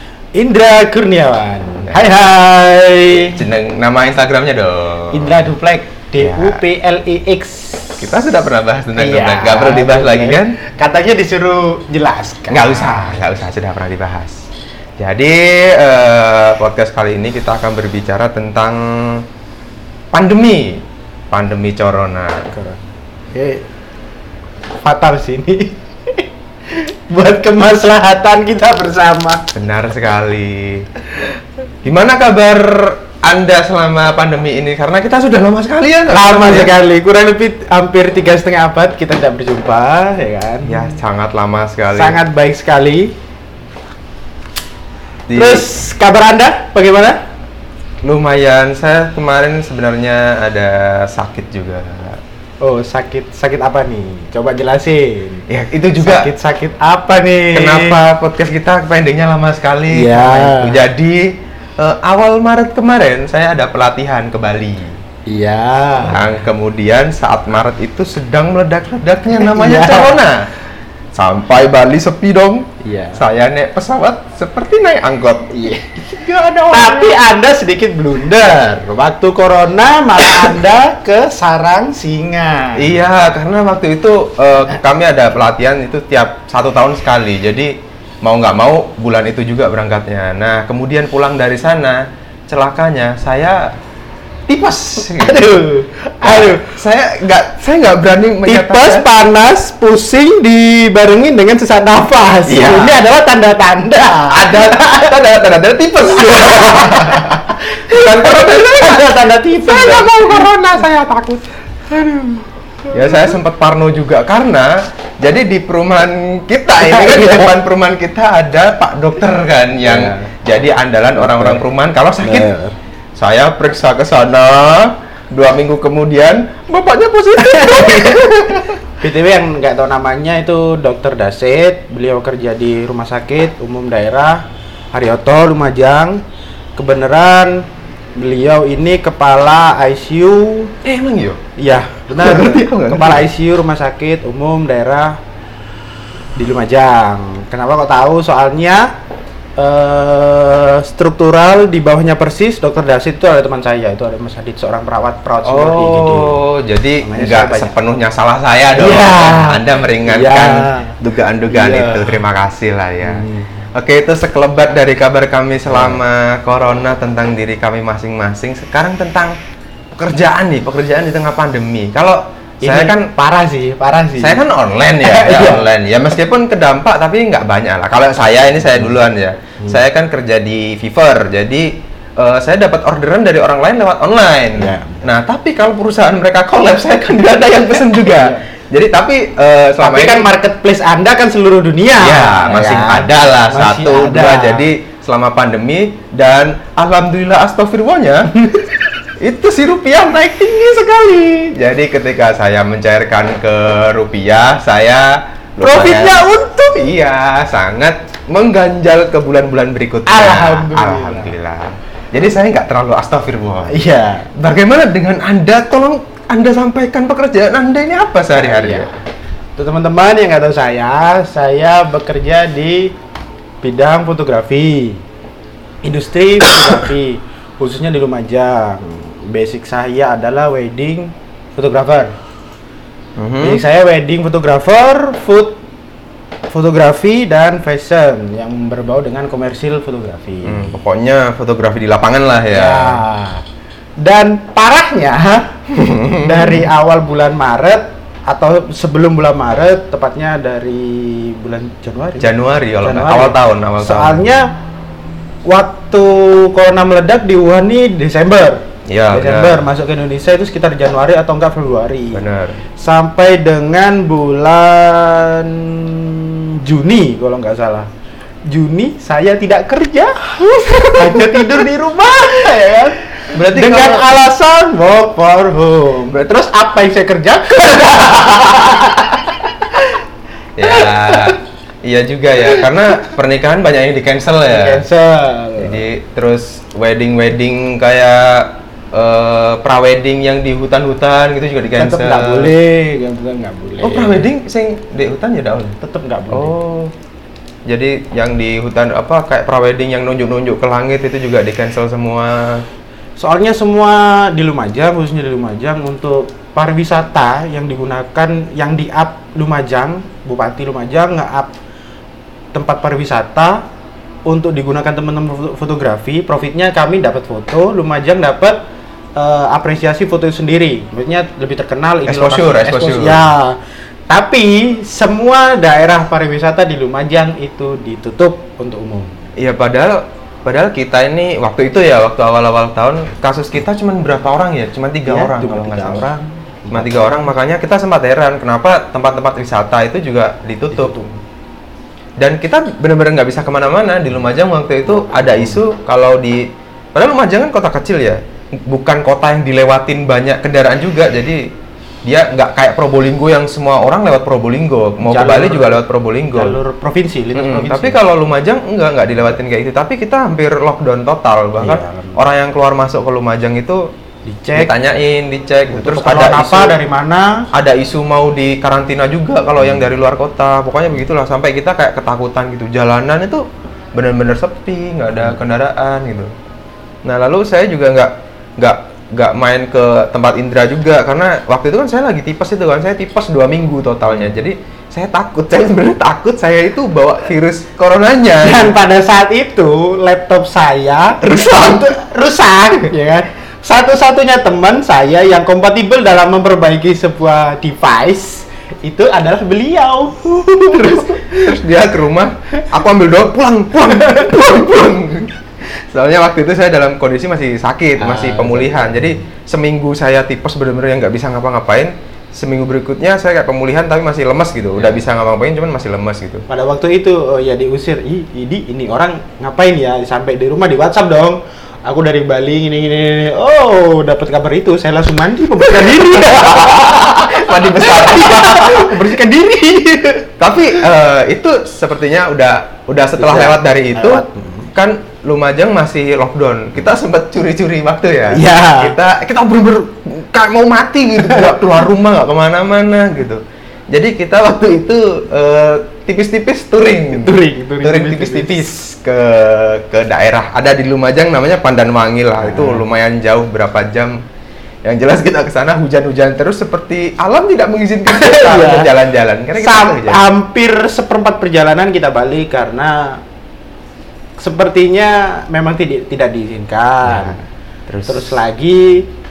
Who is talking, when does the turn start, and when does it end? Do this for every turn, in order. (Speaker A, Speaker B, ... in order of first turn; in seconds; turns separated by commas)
Speaker A: 0.3-3.4, Speaker B: 3.1-5.5, Speaker A: 5.1-8.1, Speaker B: 6.2-6.6, Speaker B: 8.0-10.6, Speaker A: 8.9-13.2, Speaker B: 12.5-14.5, Speaker B: 15.0-19.3, Speaker B: 20.1-22.5, Speaker A: 22.5-22.8, Speaker A: 23.3-23.7, Speaker A: 24.8-29.5, Speaker B: 29.5-30.9, Speaker B: 31.8-36.8, Speaker A: 36.1-41.0, Speaker B: 40.6-42.2, Speaker A: 41.9-43.1, Speaker B: 45.3-45.7, Speaker A: 45.3-47.2, Speaker B: 48.0-52.2, Speaker A: 52.6-55.5, Speaker B: 55.5-56.3, Speaker A: 56.0-58.0, Speaker B: 57.5-65.0, Speaker A: 59.9-60.9, Speaker A: 65.3-66.2, Speaker B: 66.0-70.5, Speaker A: 69.3-70.2, Speaker B: 71.2-75.5, Speaker A: 72.8-73.2, Speaker A: 75.5-76.1, Speaker B: 76.0-77.2, Speaker A: 76.7-83.0, Speaker B: 82.8-93.7, Speaker B: 94.5-95.7, Speaker A: 95.0-96.8, Speaker B: 96.2-99.1, Speaker A: 98.4-105.2, Speaker B: 102.5-103.0, Speaker B: 104.3-109.0, Speaker A: 106.1-110.5, Speaker B: 109.6-111.5, Speaker A: 111.9-113.4, Speaker B: 112.9-122.5, Speaker A: 116.8-117.5, Speaker A: 119.8-120.3, Speaker A: 121.2-121.6, Speaker A: 122.2-122.8, Speaker B: 123.2-128.8, Speaker A: 127.4-136.2, Speaker A: 136.8-140.7, Speaker B: 140.8-141.4, Speaker A: 141.6-145.2, Speaker B: 142.1-143.3, Speaker A: 146.4-148.9, Speaker A: 149.6-156.4, Speaker B: 155.4-169.4, Speaker A: 157.0-157.8, Speaker A: 158.7-161.0, Speaker A: 161.5-162.2, Speaker A: 163.0-163.5, Speaker A: 165.7-166.0, Speaker B: 169.9-173.1, Speaker A: 172.6-174.4, Speaker B: 174.2-190.3, Speaker A: 175.0-175.7, Speaker A: 184.6-185.1, Speaker A: 188.0-188.4, Speaker A: 189.8-194.7, Speaker B: 192.0-198.5, Speaker A: 198.4-198.7, Speaker B: 199.2-213.8, Speaker A: 205.6-206.8, Speaker A: 210.1-211.3, Speaker A: 213.6-214.3, Speaker B: 214.3-218.9, Speaker A: 218.3-218.9, Speaker A: 219.6-223.0, Speaker A: 223.6-225.0, Speaker A: 225.8-232.1, Speaker B: 233.2-233.6, Speaker A: 233.4-235.6, Speaker A: 236.5-240.8, Speaker B: 240.4-243.0, Speaker A: 242.5-243.4, Speaker A: 244.0-245.6, Speaker B: 245.7-246.7, Speaker A: 246.2-254.5, Speaker B: 252.2-254.2, Speaker A: 255.4-267.9, Speaker B: 258.9-259.7, Speaker B: 262.1-262.6, Speaker A: 268.5-280.0, Speaker B: 270.8-271.5, Speaker B: 273.3-274.1, Speaker B: 280.6-284.8, Speaker A: 280.6-281.4, Speaker A: 284.4-285.9, Speaker B: 285.6-292.5, Speaker A: 291.8-294.3, Speaker B: 293.8-295.8, Speaker A: 295.8-296.6, Speaker B: 296.3-296.9, Speaker B: 297.7-302.6, Speaker A: 303.2-311.5, Speaker A: 312.5-313.6, Speaker A: 314.3-318.6, Speaker A: 319.1-323.6, Speaker B: 322.1-323.3, Speaker A: 324.1-329.2, Speaker B: 329.4-336.0, Speaker A: 335.1-337.3, Speaker B: 336.7-341.1, Speaker A: 340.7-341.1, Speaker B: 342.2-351.5, Speaker B: 352.1-356.6, Speaker A: 355.0-358.0, Speaker B: 357.4-363.9, Speaker A: 361.6-362.2, Speaker A: 364.3-364.7, Speaker B: 364.5-366.8, Speaker A: 365.7-367.4, Speaker B: 367.5-376.3, Speaker B: 377.1-388.7, Speaker A: 388.4-401.5, Speaker B: 391.2-391.9, Speaker B: 400.7-416.5, Speaker A: 403.8-404.4, Speaker A: 408.0-409.1, Speaker A: 416.5-430.8, Speaker B: 425.8-429.0, Speaker B: 430.4-454.2, Speaker A: 433.2-434.7, Speaker A: 438.3-439.0, Speaker A: 441.2-441.8, Speaker A: 447.1-448.7, Speaker A: 452.4-452.9, Speaker B: 454.8-460.3, Speaker A: 458.1-458.9, Speaker A: 459.6-463.2, Speaker A: 464.4-467.5, Speaker B: 467.1-468.4, Speaker A: 468.1-469.1